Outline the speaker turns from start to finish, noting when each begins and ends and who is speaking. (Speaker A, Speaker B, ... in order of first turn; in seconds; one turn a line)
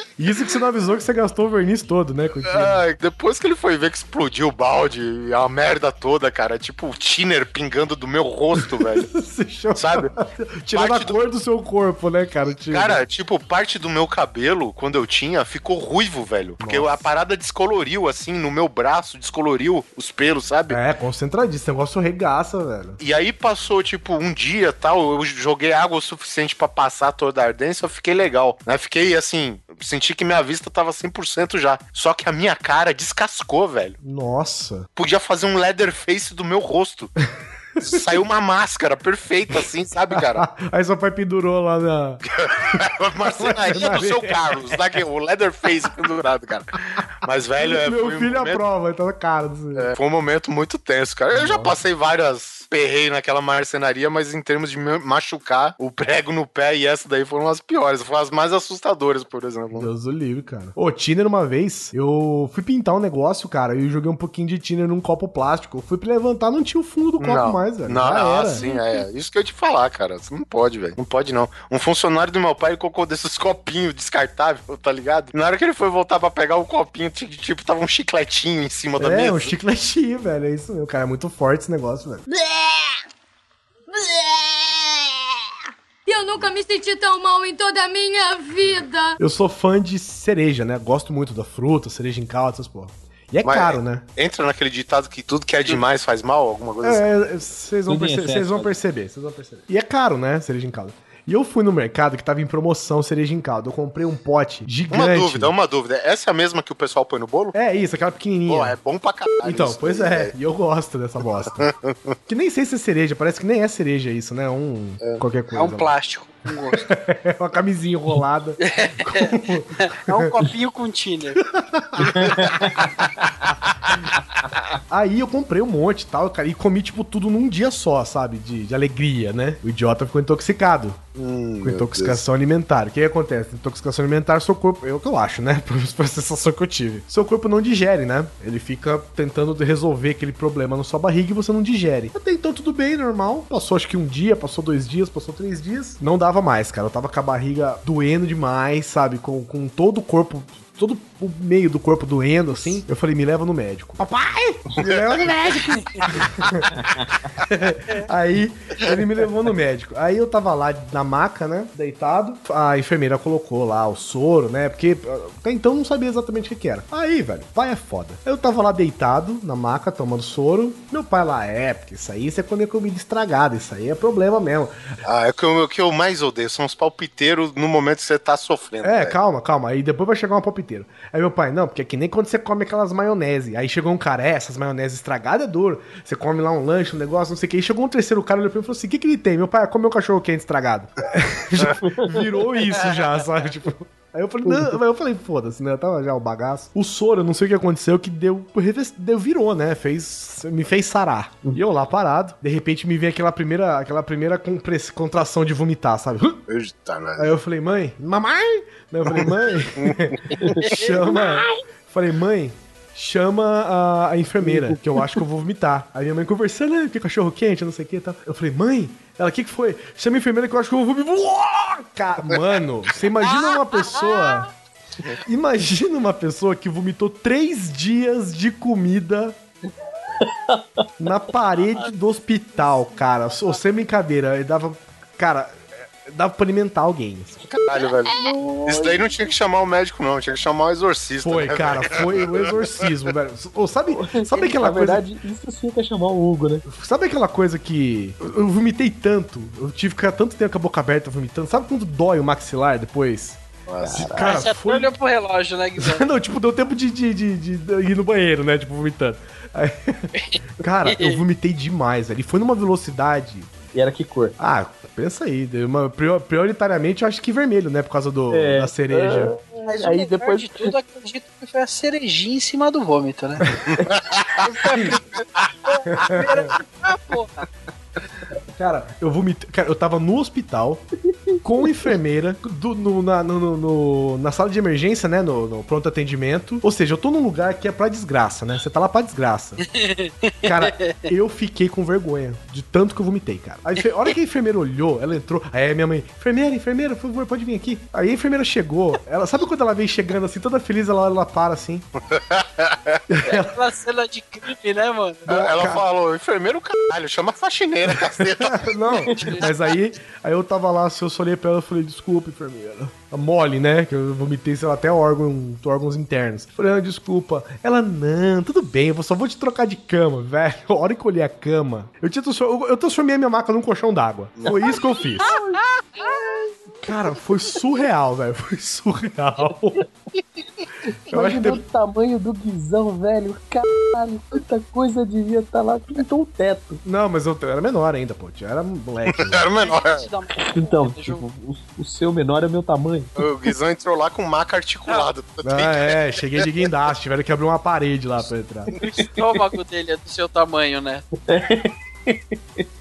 Speaker A: 0.2-2.8
Speaker B: 2.4-9.1
Speaker A: 8.6-13.0
Speaker B: 9.7-10.1
Speaker B: 10.7-11.3
Speaker B: 12.7-20.8
Speaker A: 16.6-17.1
Speaker A: 20.7-23.0
Speaker B: 23.0-34.0
Speaker A: 34.0-34.9
Speaker B: 35.0-37.1
Speaker B: 37.8-40.5
Speaker A: 40.1-44.8
Speaker B: 42.2-48.6
Speaker A: 47.6-49.9
Speaker B: 49.8-59.9
Speaker A: 51.3-51.8
Speaker A: 59.7-68.7
Speaker B: 67.2-79.5
Speaker C: 68.5-69.0
Speaker A: 79.0-82.2
Speaker D: 86.0-89.1
Speaker A: 89.2-94.0
Speaker B: 93.4-97.1
Speaker A: 96.8-105.5
Speaker E: 97.9-98.7
Speaker B: 104.9-107.5
Speaker A: 107.5-108.7
Speaker B: 108.5-110.3
Speaker A: 109.4-111.7
Speaker B: 111.4-112.1
Speaker A: 112.3-115.9
Speaker C: 115.5-116.9
Speaker A: 116.7-120.3
Speaker C: 118.6-121.4
Speaker A: 121.4-122.8
Speaker E: 122.1-122.9
Speaker B: 123.7-124.0
Speaker A: 124.9-131.0
Speaker B: 131.1-132.2
Speaker A: 131.6-156.7
Speaker B: 154.7-157.0
Speaker E: 156.8-157.0
Speaker A: 157.4-174.8
Speaker B: 175.0-179.2
Speaker A: 178.8-206.4
Speaker E: 191.7-192.3
Speaker E: 194.4-194.8
Speaker B: 206.5-207.3
Speaker A: 207.2-224.5
Speaker B: 209.1-210.4
Speaker C: 210.6-211.4
Speaker E: 214.4-215.2
Speaker B: 222.3-222.6
Speaker A: 225.2-229.3
Speaker E: 230.2-230.8
Speaker A: 231.0-237.4
Speaker B: 237.4-242.8
Speaker E: 238.1-239.0
Speaker A: 241.2-245.0
Speaker E: 243.9-246.7
Speaker A: 246.7-253.4
Speaker B: 253.7-254.1
Speaker E: 253.8-254.3
Speaker A: 253.9-254.9
Speaker C: 254.1-256.0
Speaker A: 255.8-263.5
Speaker C: 260.2-261.2
Speaker E: 263.7-264.3
Speaker A: 264.4-269.4
Speaker E: 268.3-270.7
Speaker C: 269.7-273.6
Speaker B: 273.9-274.4
Speaker C: 274.4-277.5
Speaker A: 275.9-276.5
Speaker A: 278.6-280.8
Speaker A: 281.4-289.6
Speaker C: 289.8-291.1
Speaker A: 290.4-301.8
Speaker B: 302.0-303.0
Speaker A: 303.1-303.6
Speaker C: 303.2-305.4
Speaker B: 305.3-309.1
Speaker A: 305.3-305.8
Speaker A: 308.4-325.3
Speaker C: 309.1-309.5
Speaker B: 324.4-324.7
Speaker E: 324.5-326.5
Speaker C: 326.0-326.4
Speaker A: 326.8-329.8
Speaker E: 331.1-336.8
Speaker A: 331.1-331.6
Speaker A: 336.8-339.4
Speaker B: 339.1-340.0
Speaker C: 339.5-341.2
Speaker E: 340.3-343.1
Speaker B: 343.2-346.5
Speaker A: 345.4-348.7
Speaker C: 348.8-351.1
Speaker E: 351.2-352.6